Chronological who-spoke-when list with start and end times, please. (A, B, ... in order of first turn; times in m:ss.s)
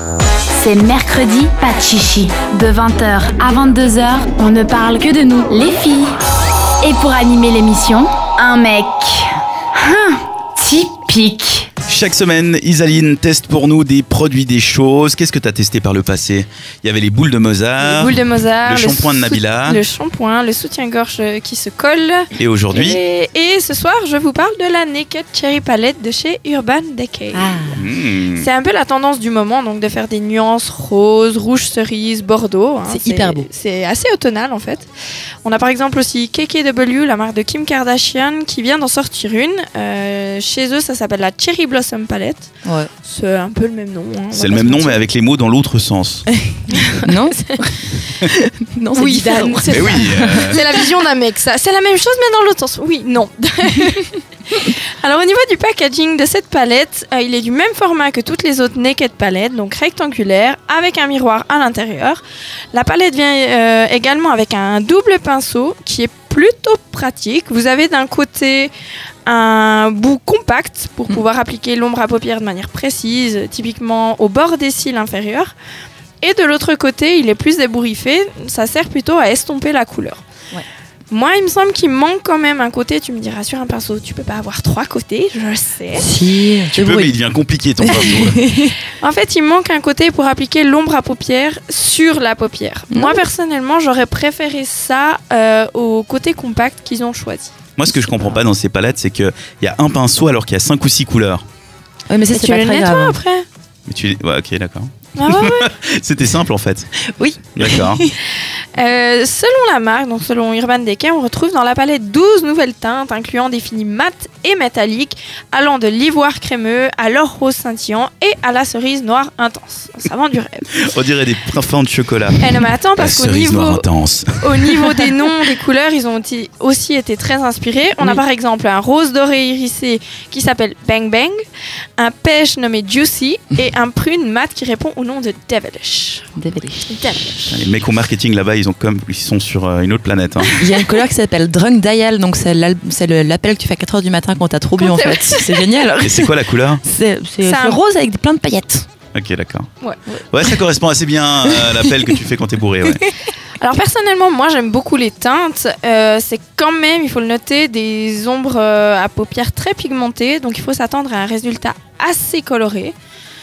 0:00.5-0:06.1 A
0:06.8-0:11.7 A
0:11.9-0:19.8 B
0:17.8-0:27.8 C
0:22.4-0:23.0 B
0:27.3-0:27.8 D
0:27.7-0:28.5 B
0:28.3-0:34.9 C
0:32.9-0:33.5 D
0:35.4-0:42.5 C
0:42.6-0:42.9 D
0:43.0-0:45.0 C
0:44.3-0:46.2 B
0:46.3-0:50.9 D
0:46.7-0:47.6 C
0:49.0-1:02.2 C
0:49.7-0:50.6 B
1:02.7-1:08.7 C
1:09.3-1:15.5 C
1:16.2-1:20.2 C
1:21.1-1:26.1 C
1:26.0-1:27.2 D
1:26.7-1:28.4 B
1:27.8-1:28.8 D
1:29.0-1:37.5 C
1:32.9-1:33.2 D
1:37.8-1:41.4 B
1:37.9-1:38.4 D
1:42.1-1:43.2 D
1:42.3-1:43.4 C
1:43.9-1:46.9 B
1:45.2-1:45.7 C
1:47.2-1:48.2 D
1:47.6-1:48.0 B
1:48.8-2:00.7 C
2:00.8-2:02.4 B
2:02.4-2:03.9 C
2:03.0-2:05.0 B
2:04.4-2:11.4 C
2:12.0-2:16.3 C
2:16.4-2:17.0 D
2:16.9-2:17.5 C
2:17.5-2:20.6 B
2:20.5-2:28.8 D
2:24.8-2:25.8 C
2:26.0-2:26.8 B
2:27.4-2:27.8 C
2:29.1-2:29.7 B
2:29.8-2:30.1 C
2:30.3-2:33.0 B
2:31.4-2:32.2 D
2:32.8-2:33.1 D
2:33.6-2:42.9 C